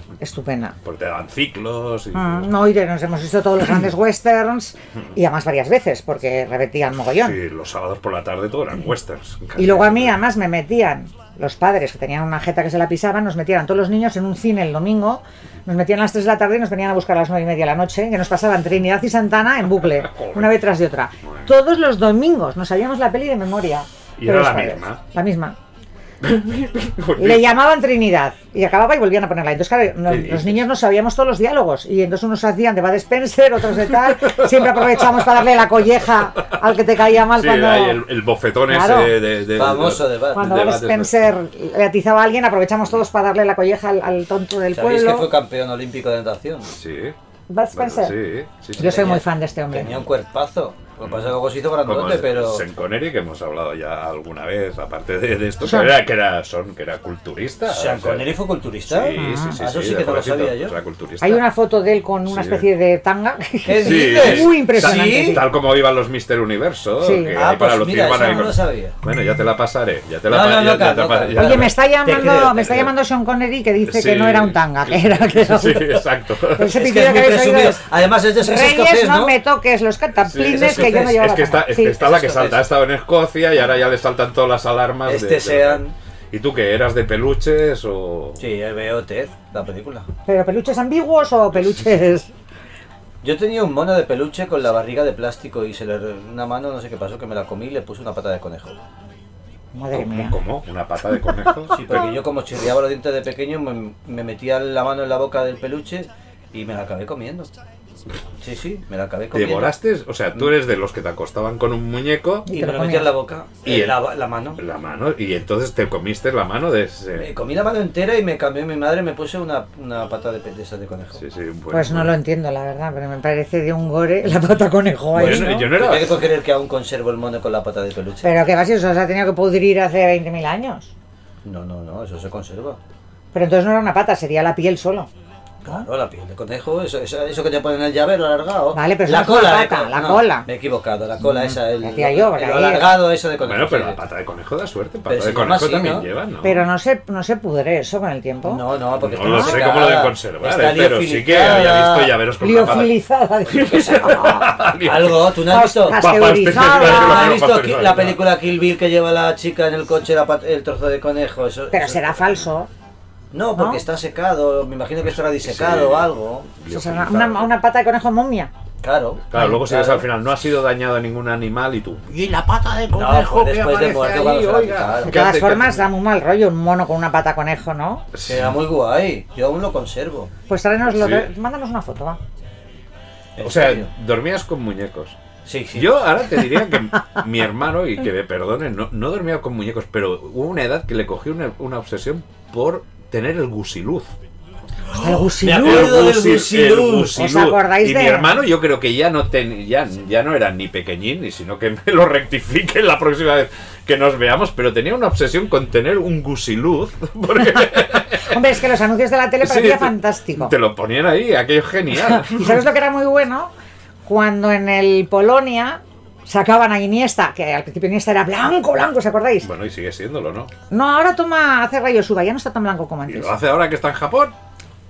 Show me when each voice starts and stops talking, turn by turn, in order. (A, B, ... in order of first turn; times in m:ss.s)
0:00.2-0:00.8 A
0:00.8-0:02.5 B
0:02.1-0:07.4 A
0:07.2-0:10.2 B
0:09.6-0:25.6 A
0:19.8-0:20.6 B
0:21.2-0:21.5 B
0:24.2-0:25.0 B
0:26.2-0:27.5 B
0:27.2-0:38.0 A
0:30.0-0:30.7 B
0:33.7-0:35.6 B
0:37.2-0:41.1 B
0:38.7-0:39.2 A
0:39.5-0:40.5 C
0:40.3-0:45.3 A
0:44.7-0:46.7 C
0:46.7-0:47.2 B
0:47.5-0:48.2 A
0:47.7-0:49.2 B
0:48.8-0:50.0 A
0:48.8-0:52.6 C
0:51.0-1:01.4 B
0:55.6-0:56.0 A
0:57.7-1:00.7 C
0:59.1-0:59.6 A
1:01.2-1:05.4 A
1:02.2-1:02.6 B
1:03.7-1:05.4 C
1:03.7-1:11.8 B
1:07.0-1:07.4 A
1:07.3-1:08.9 C
1:10.3-1:12.9 C
1:11.4-1:17.8 A
1:13.8-1:16.8 B
1:16.7-1:19.4 C
1:18.4-1:22.1 A
1:20.2-1:28.4 B
1:20.5-1:21.2 C
1:22.0-1:22.6 C
1:25.0-1:25.9 C
1:28.4-1:30.1 C
1:30.3-1:32.3 A
1:33.2-1:38.8 C
1:39.7-1:40.4 A
1:39.9-1:42.0 B
1:41.7-1:47.5 C
1:48.4-1:49.7 C
1:49.3-1:52.5 B
1:52.5-1:53.1 A
1:52.5-1:54.6 C
1:53.6-1:57.3 B
1:57.2-2:01.2 C
2:01.2-2:02.2 B
2:01.7-2:05.7 A
2:05.1-2:06.2 B
2:05.2-2:08.4 C
2:08.2-2:10.9 A
2:11.4-2:12.8 C
2:13.3-2:15.1 A
2:15.6-2:24.0 C
2:18.7-2:20.4 A
2:21.3-2:22.9 A
2:23.4-2:26.6 B
2:25.1-2:26.1 C
2:26.4-2:28.6 A
2:28.4-2:32.1 C
2:29.0-2:38.2 B
2:29.2-2:29.6 A
2:32.4-2:34.5 A
2:34.8-2:42.2 C
2:35.5-2:37.4 A
2:41.7-2:42.7 A
2:43.3-2:46.5 C
2:43.6-2:43.8 A
2:45.0-2:47.5 B
2:46.7-2:48.5 A
2:48.8-2:50.0 C
2:49.3-2:55.8 B
2:52.9-2:55.1 C
2:55.0-2:58.0 A
2:58.1-2:58.6 B
2:58.2-3:00.3 C
3:00.5-3:02.2 A
3:00.9-3:01.3 B
3:03.4-3:03.9 C
3:03.4-3:05.2 B
3:05.4-3:06.0 C
3:05.7-3:14.1 B
3:14.9-3:16.1 A
3:15.4-3:17.2 C
3:15.4-3:28.5 B
3:17.2-3:18.4 A
3:28.2-3:30.5 A
3:29.4-3:32.6 B
3:32.1-3:33.5 A
3:34.0-3:39.5 A
3:39.4-3:40.5 B
3:40.7-3:43.3 A
3:43.1-3:44.3 B